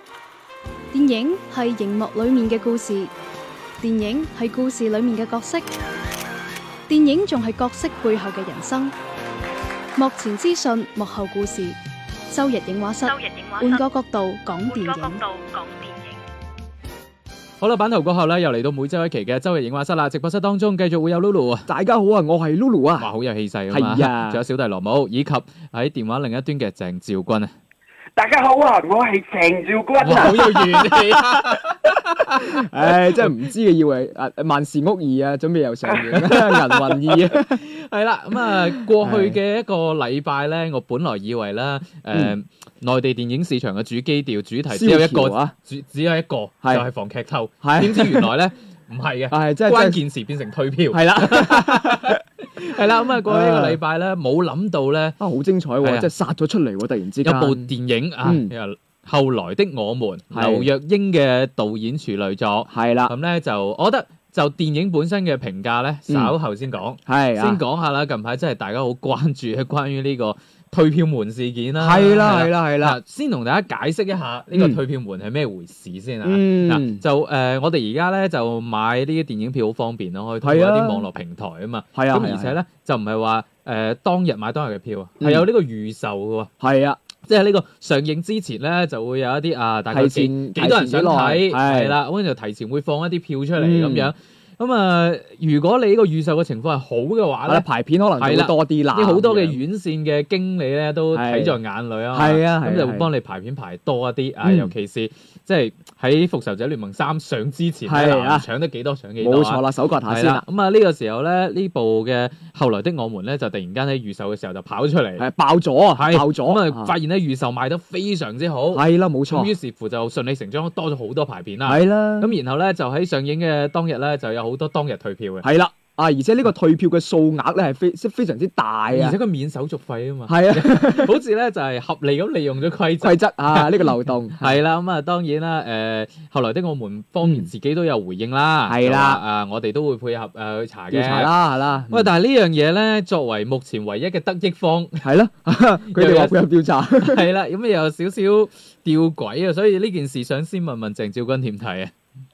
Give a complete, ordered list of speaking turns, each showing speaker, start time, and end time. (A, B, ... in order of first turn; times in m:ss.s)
0:00.9-0:03.1 A
0:03.8-0:05.6 A
0:06.9-0:08.9 A
0:10.0-0:11.8 A
0:12.3-0:15.2 A
0:13.1-0:13.8 B
0:14.7-0:16.1 B
0:17.6-0:21.7 C
0:21.6-0:23.1 D
0:23.0-0:27.5 C
0:23.7-0:24.4 D
0:28.2-0:31.1 E
0:30.0-0:31.6 C
0:32.5-0:37.6 D
0:36.2-0:36.9 C
0:37.5-0:55.1 C
0:38.9-0:39.4 D
0:44.7-0:45.5 D
0:47.6-0:48.3 D
0:49.3-0:50.0 D
0:50.9-0:52.2 D
0:53.2-0:53.8 D
0:55.2-0:57.7 D
0:55.8-0:56.1 C
0:57.3-1:26.5 C
0:58.2-0:58.5 D
1:00.3-1:00.7 D
1:02.7-1:03.1 D
1:06.1-1:06.4 D
1:07.0-1:07.6 D
1:11.8-1:13.0 D
1:14.5-1:14.8 D
1:16.2-1:17.0 D
1:20.4-1:21.1 D
1:21.9-1:22.6 D
1:25.2-1:25.5 D
1:26.6-1:27.0 D
1:27.3-1:37.6 C
1:29.9-1:32.0 D
1:33.5-1:34.1 D
1:37.4-1:39.6 D
1:38.2-1:49.6 C
1:41.1-1:41.6 D
1:42.1-1:43.1 D
1:44.4-1:44.7 D
1:47.8-1:48.5 D
1:49.2-1:50.4 D
1:50.1-1:55.2 C
1:55.2-1:56.9 D
1:56.0-1:58.8 C
1:58.7-1:59.5 D
1:59.3-2:05.4 C
2:01.6-2:02.3 D
2:05.4-2:09.2 D
2:09.0-2:13.7 C
2:10.3-2:11.2 D
2:13.0-2:14.6 D
2:14.4-2:21.3 C
2:17.2-2:17.5 D
2:18.6-2:19.2 D
2:20.9-2:22.2 D
2:21.9-2:24.9 C
2:25.0-2:27.3 D
2:25.9-2:26.4 C
2:27.0-2:31.9 C